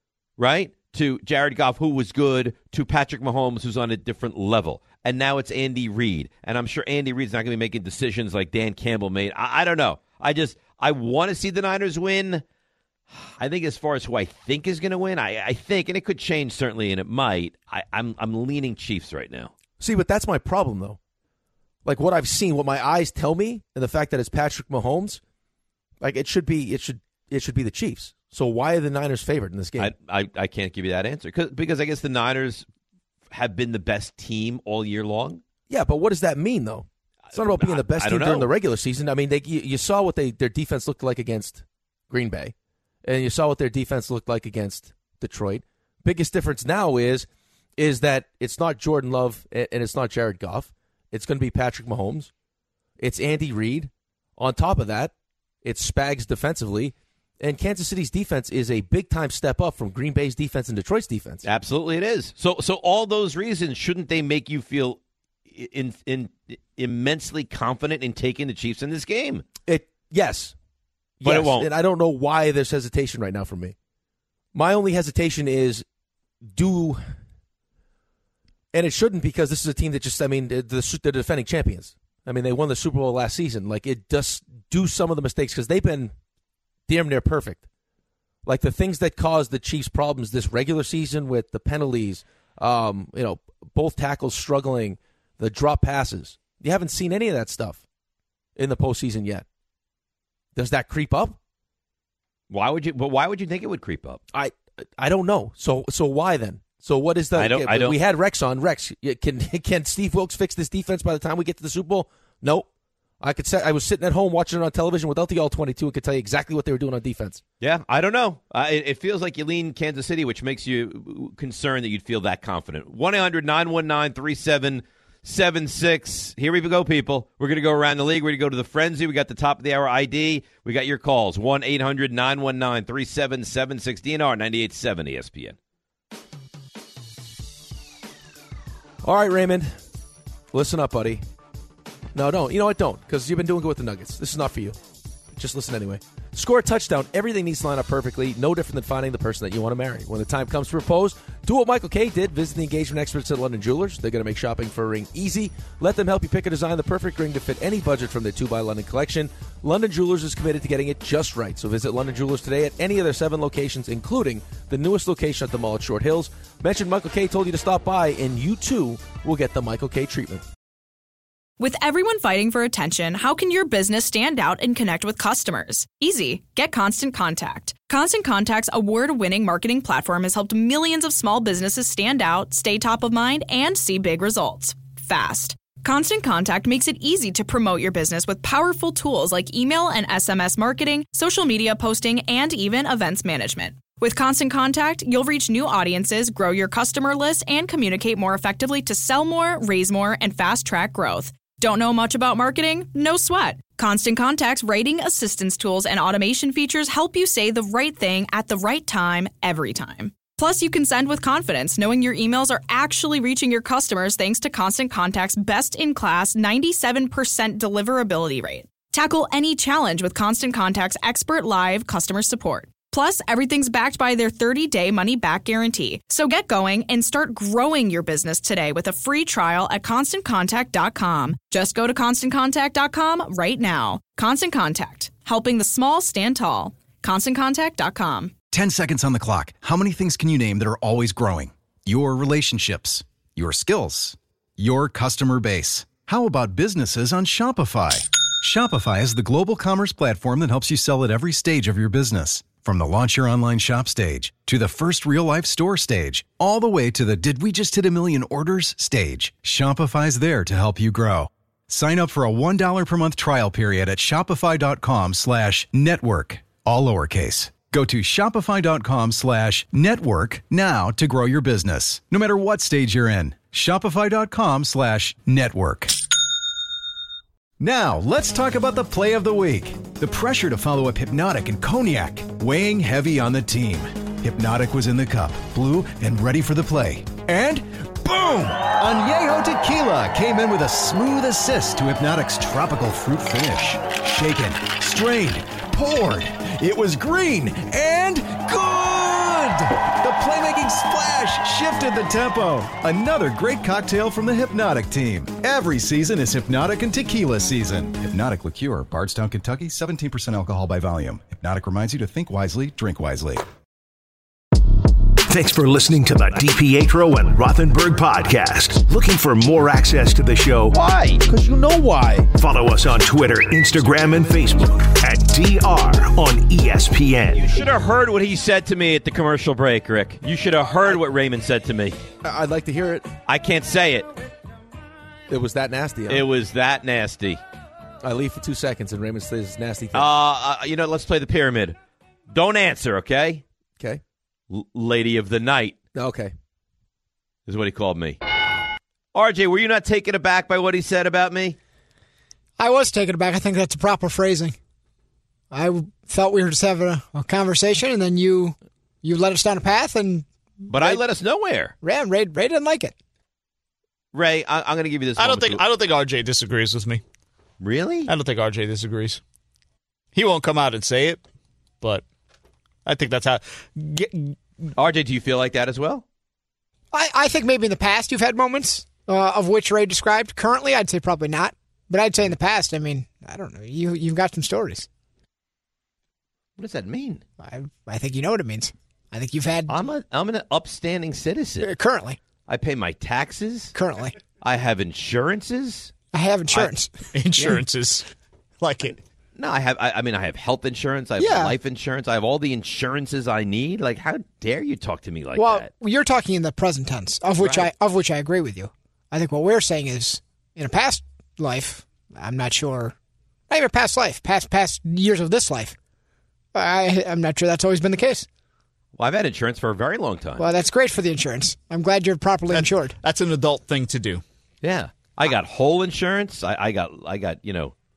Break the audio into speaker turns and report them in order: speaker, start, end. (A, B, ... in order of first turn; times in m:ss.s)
0:00.4-0:12.4 A
0:13.1-0:19.5 A
0:19.8-0:21.0 B
0:21.8-0:25.2 B
0:26.0-0:29.9 B
0:29.8-0:32.6 A
0:33.3-0:35.4 A
0:35.7-0:42.5 B
0:37.3-0:38.5 A
0:43.0-0:52.3 B
0:53.0-0:55.1 B
0:55.6-1:01.5 B
1:01.4-1:09.4 A
1:09.7-1:10.5 B
1:11.2-1:13.8 B
1:11.2-1:11.7 A
1:14.5-1:15.8 B
1:16.5-1:17.0 B
1:18.7-1:26.1 B
1:26.9-1:27.6 B
1:28.5-1:37.8 B
1:38.6-1:39.4 B
1:40.6-1:41.4 B
1:42.5-1:44.2 A
1:44.3-1:52.7 B
1:47.4-1:48.0 A
1:53.2-1:57.4 B
1:57.6-2:15.6 A
2:19.0-2:19.8 B
2:20.5-2:21.2 B
2:22.2-2:24.8 B
2:25.3-2:50.4 B
2:51.6-3:58.4 C
3:58.5-4:36.0 D
4:37.6-5:13.4 D
5:15.3-5:20.8 E
5:20.7-5:21.2 A
5:21.3-5:22.3 B
5:22.3-5:27.6 E
5:27.4-5:32.0 A
5:32.2-5:33.1 B
5:33.3-5:34.1 A
5:35.3-5:36.2 B
5:36.1-5:37.4 A
5:38.0-5:40.1 B
5:39.9-5:41.8 A
5:42.3-5:43.4 A
5:44.5-5:45.8 A
5:46.0-5:46.3 B
5:47.5-5:48.2 A
5:49.1-5:51.6 A
5:52.6-5:54.6 F
5:55.5-6:01.0 F
6:00.7-6:01.7 A
6:01.8-6:02.9 F
6:04.1-6:05.6 A
6:05.2-6:07.0 G
6:07.6-6:08.1 A
6:08.1-6:09.2 G
6:10.2-6:11.2 G
6:12.9-6:14.4 G
6:14.8-6:16.0 A
6:16.9-6:24.9 F
6:26.6-6:27.2 A
6:27.4-6:29.8 F
6:29.7-6:31.7 A
6:31.6-6:32.2 F
6:32.5-6:33.7 A
6:33.7-6:34.2 F
6:34.4-6:35.9 A
6:36.1-6:37.5 F
6:36.5-6:38.1 G
6:38.6-6:39.0 G
6:39.4-6:45.7 A
6:41.2-6:41.6 F
6:45.4-6:53.0 F
6:47.4-6:47.7 A
6:53.5-6:55.8 F
6:56.5-6:58.3 F
6:59.0-7:00.4 A
7:00.4-7:03.0 F
7:02.5-7:04.2 G
7:04.6-7:07.7 A